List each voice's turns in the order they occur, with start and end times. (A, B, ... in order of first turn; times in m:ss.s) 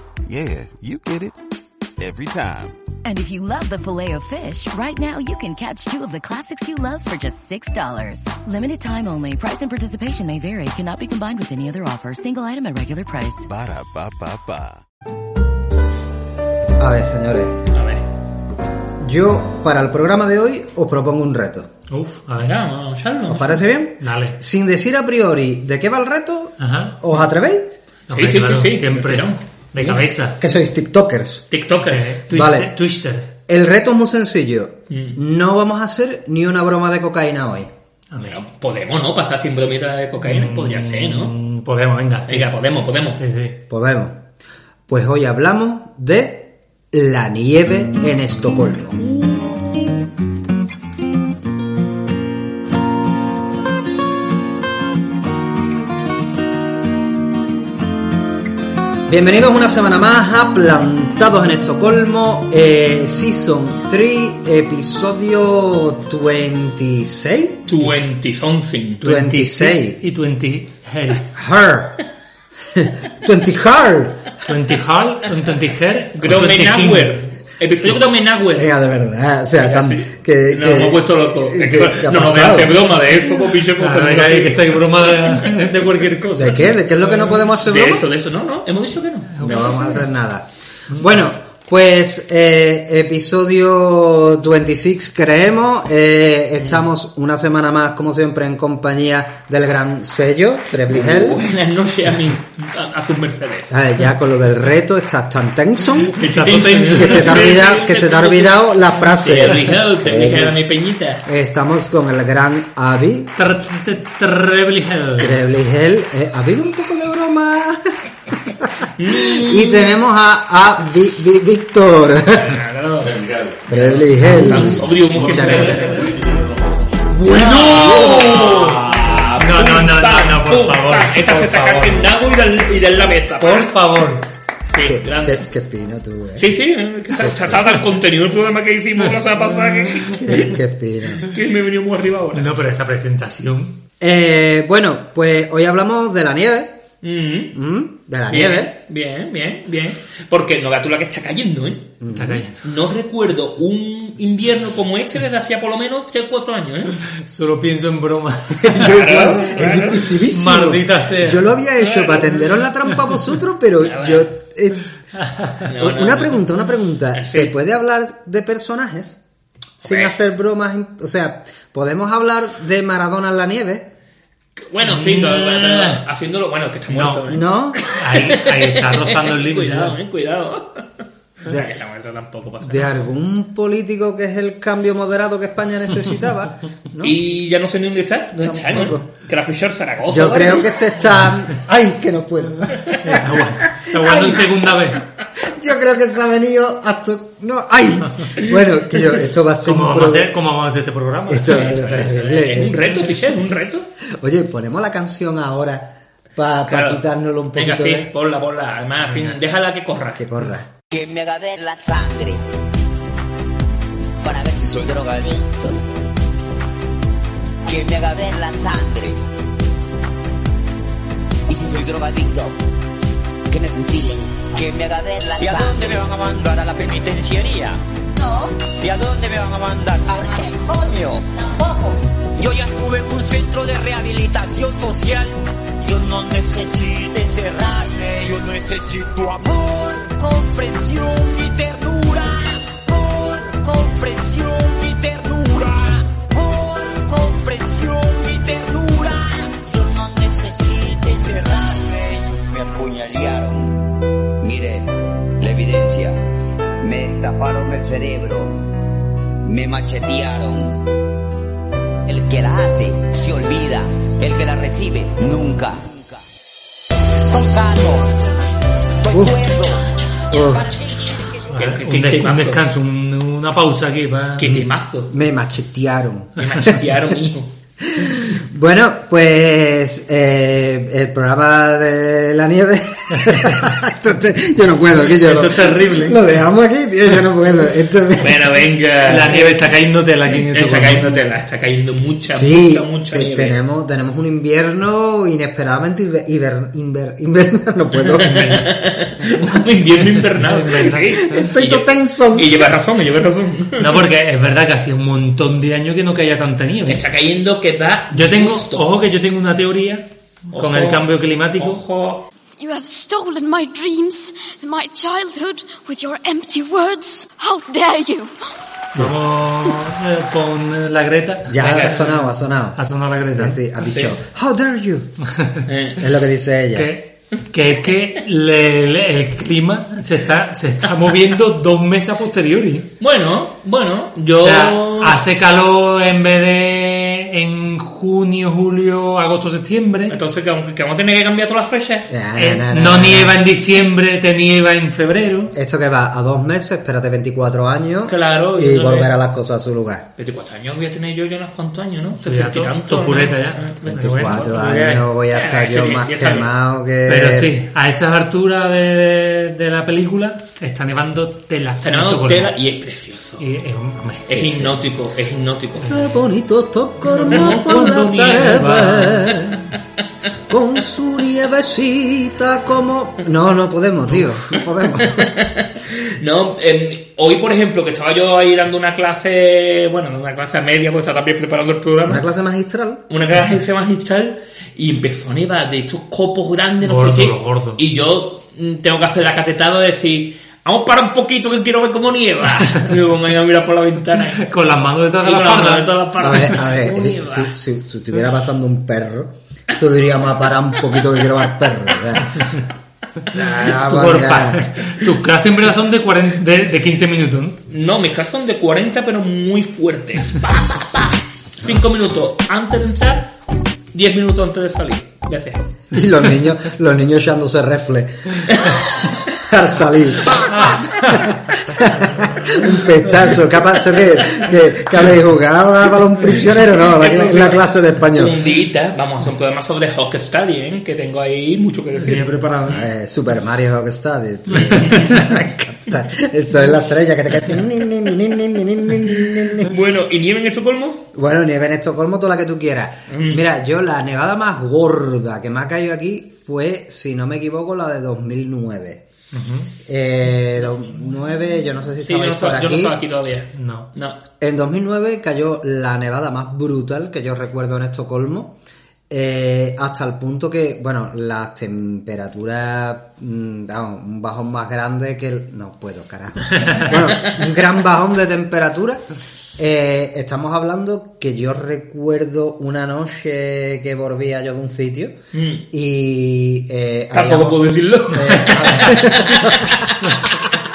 0:00.3-0:01.3 A
0:02.0-0:02.8 A
0:03.0-0:13.4 B
0:13.5-0:14.8 A
0:16.8-0:17.6 C
0:17.7-0:18.0 D
0:19.0-0:21.7 C
0:21.9-0:22.5 E
0:22.4-0:23.6 D
0:23.3-0:27.7 C
0:24.0-0:24.4 E
0:26.6-0:27.0 E
0:28.1-0:30.4 E
0:28.1-0:30.0 D
0:30.4-0:31.4 C
0:31.5-0:32.2 D
0:31.8-0:33.3 E
0:32.3-0:32.7 C
0:33.5-0:37.7 C
0:34.9-0:35.2 D
0:38.1-0:38.4 E
0:38.2-0:41.3 D
0:40.2-0:42.5 E
0:42.3-0:43.2 D
0:43.2-0:43.6 E
0:43.7-0:44.2 C
0:44.9-0:49.0 C
0:59.1-1:07.7 C
1:07.7-1:09.0 D
1:07.7-1:08.1 E
1:09.0-1:11.2 E
1:09.0-1:10.0 C
1:11.3-1:12.0 C
1:12.7-1:14.3 C
1:14.4-1:17.2 E
1:16.2-1:18.7 D
1:18.5-1:22.8 C
1:19.5-1:25.6 D
1:23.8-1:26.7 E
1:26.4-1:28.0 C
1:27.5-1:29.8 D
1:29.4-1:29.8 E
1:29.4-1:41.4 C
1:40.7-1:43.7 D
1:43.7-1:46.2 C
1:46.1-1:51.2 D
1:46.2-1:47.4 E
1:46.9-1:50.6 C
1:51.2-1:53.3 C
1:53.4-1:55.4 E
1:55.2-2:02.6 C
1:59.0-2:00.0 D
2:02.4-2:06.2 D
2:03.2-2:03.6 A
2:03.7-2:06.1 C
2:07.1-2:13.7 D
2:07.4-2:08.8 E
2:09.4-2:12.1 E
2:13.4-2:14.2 E
2:14.7-2:15.4 D
2:14.8-2:16.5 C
2:16.4-2:20.5 D
2:17.2-2:17.6 C
2:20.2-2:21.2 C
2:21.2-2:22.5 D
2:22.3-2:23.8 E
2:24.0-2:26.8 C
2:27.0-2:27.6 D
2:27.5-2:28.7 C
2:28.3-2:32.0 D
2:32.0-2:32.4 C
2:32.1-2:32.6 E
2:32.6-2:37.0 D
2:37.2-2:39.2 E
2:38.6-2:44.8 C
2:38.8-2:40.2 D
2:40.3-2:41.5 E
2:41.8-2:42.6 D
2:43.8-2:44.3 D
2:45.2-2:45.6 E
2:45.6-2:46.5 D
2:45.8-2:49.2 C
2:47.1-2:47.5 D
2:49.8-2:53.9 C
2:49.8-2:50.1 D
2:54.7-3:00.8 D
2:54.8-2:56.0 E
2:56.9-2:57.2 E
2:57.3-2:57.8 C
2:57.8-3:00.0 E
3:01.4-3:02.9 D
3:01.4-3:01.7 C
3:02.6-3:07.2 C
3:07.0-3:10.7 D
3:08.4-3:09.1 C
3:10.1-3:13.2 C
3:13.0-3:15.0 E
3:13.9-3:14.7 C
3:15.4-3:20.3 C
3:19.6-3:21.7 E
3:21.3-3:23.1 C
3:21.5-3:23.9 D
3:24.1-3:28.1 C
3:26.7-3:27.0 D
3:27.6-3:30.4 D
3:29.1-3:29.4 E
3:30.2-3:30.7 C
3:30.9-3:32.4 F
3:34.2-3:35.8 F
3:37.7-3:39.2 F
3:41.5-3:42.6 F
3:43.5-3:46.0 F
3:45.4-4:02.3 G
3:50.2-3:50.5 F
4:02.9-4:12.3 G
4:12.4-4:13.9 F
4:14.4-4:16.2 F
4:16.8-4:18.6 F
4:19.4-4:20.8 F
4:22.0-4:26.2 F
4:27.3-4:28.1 F
4:29.0-4:31.3 F
4:29.1-4:29.4 C
4:30.3-4:30.8 C
4:31.5-4:32.6 D
4:31.5-4:34.6 E
4:34.4-4:35.1 D
4:35.1-4:36.8 C
4:36.4-4:37.5 D
4:37.8-4:48.6 C
4:43.2-4:43.6 E
4:45.0-4:46.2 E
4:48.2-4:49.5 D
4:49.1-4:51.2 E
4:49.2-4:49.6 C
4:50.5-4:53.6 D
4:52.3-4:58.7 C
4:58.0-5:04.1 D
5:00.1-5:01.2 E
5:01.2-5:02.8 C
5:03.8-5:07.0 E
5:06.8-5:08.8 D
5:08.1-5:11.8 E
5:10.5-5:12.2 D
5:12.6-5:18.3 H
5:19.0-5:23.6 E
5:21.5-5:22.8 C
5:21.6-5:22.1 D
5:23.3-5:25.1 C
5:23.9-5:24.2 D
5:25.2-5:25.6 E
5:25.7-5:26.0 D
5:26.0-5:26.9 C
5:26.7-5:32.9 E
5:33.0-5:35.2 D
5:34.4-5:40.2 E
5:40.1-5:42.1 D
5:42.1-5:43.4 C
5:42.4-5:45.5 E
5:45.5-5:50.1 C
5:48.1-5:49.1 D
5:50.2-5:53.9 D
5:52.2-5:55.0 E
5:53.8-5:57.6 C
5:55.3-5:56.5 D
5:57.1-6:02.5 E
6:01.8-6:03.4 D
6:03.4-6:04.8 E
6:04.3-6:06.0 D
6:05.9-6:09.6 C
6:07.1-6:09.5 E
6:07.3-6:07.7 D
6:10.5-6:15.3 C
6:14.5-6:22.2 D
6:22.1-6:23.0 C
6:23.1-6:34.5 D
6:26.8-6:27.8 E
6:34.4-6:35.9 E
6:35.2-6:37.6 D
6:36.2-6:42.4 C
6:43.3-6:44.7 C
6:43.7-6:47.6 E
6:47.7-6:53.3 D
6:53.9-6:55.6 D
6:55.9-7:08.4 C
7:00.5-7:01.4 E
7:06.7-7:12.8 D
7:12.0-7:12.8 E
7:12.7-7:19.7 C
7:14.5-7:15.2 E
7:14.9-7:15.2 D
7:19.6-7:21.0 D
7:21.1-7:29.0 C
7:23.1-7:23.4 D
7:29.3-7:29.7 E
7:29.8-7:33.0 C
7:32.0-7:34.2 D
7:33.5-7:33.9 E
7:34.4-7:38.6 C
7:39.1-7:49.0 C
7:49.6-7:55.2 C
7:55.3-7:55.6 D
7:55.7-8:00.1 C
7:57.1-7:59.8 D